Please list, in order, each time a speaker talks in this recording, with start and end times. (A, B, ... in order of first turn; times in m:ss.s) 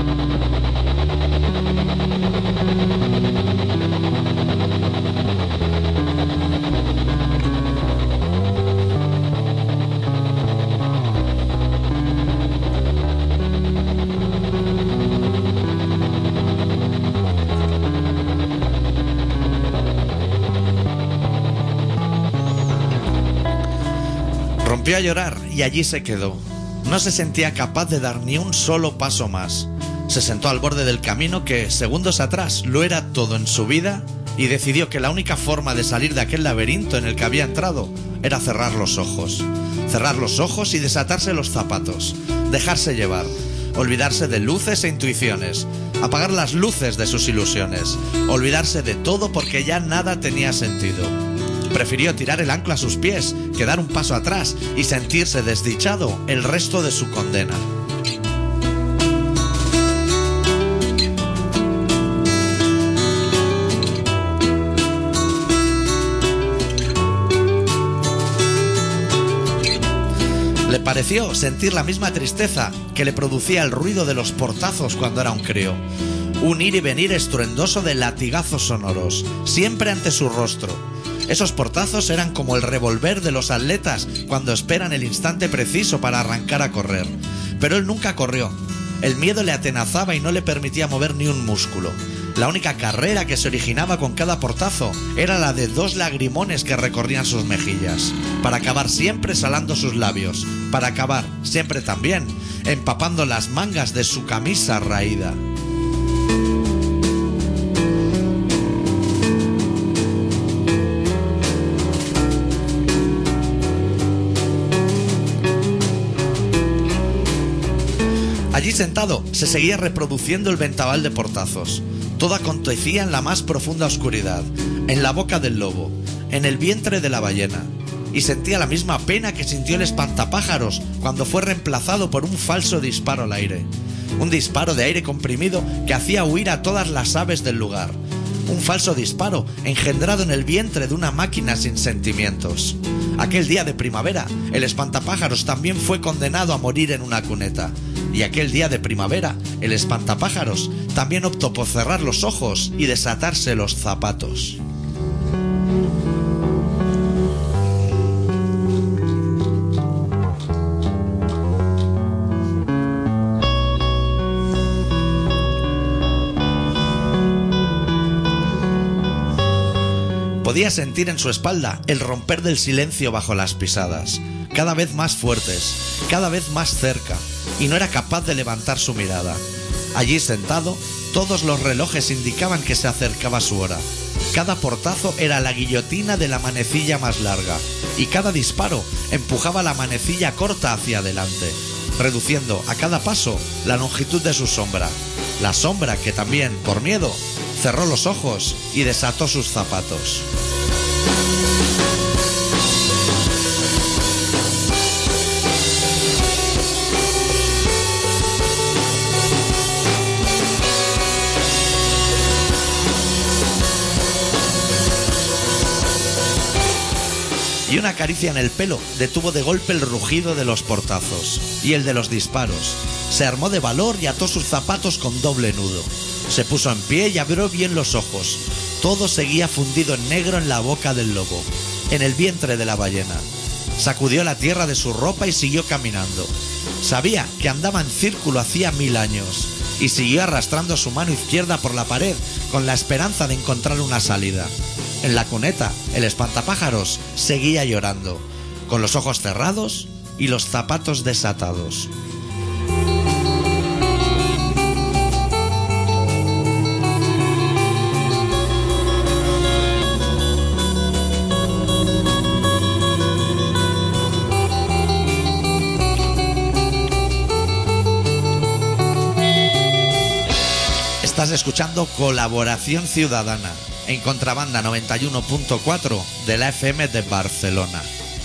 0:24.6-0:51.2 A
0:51.7-0:57.7 A
1:10.6-1:15.8 A
1:16.4-1:45.4 A
1:58.5-2:34.6 A
2:50.4-3:20.3 A
3:37.7-3:53.2 A
3:53.8-4:11.9 A
4:31.0-4:37.9 A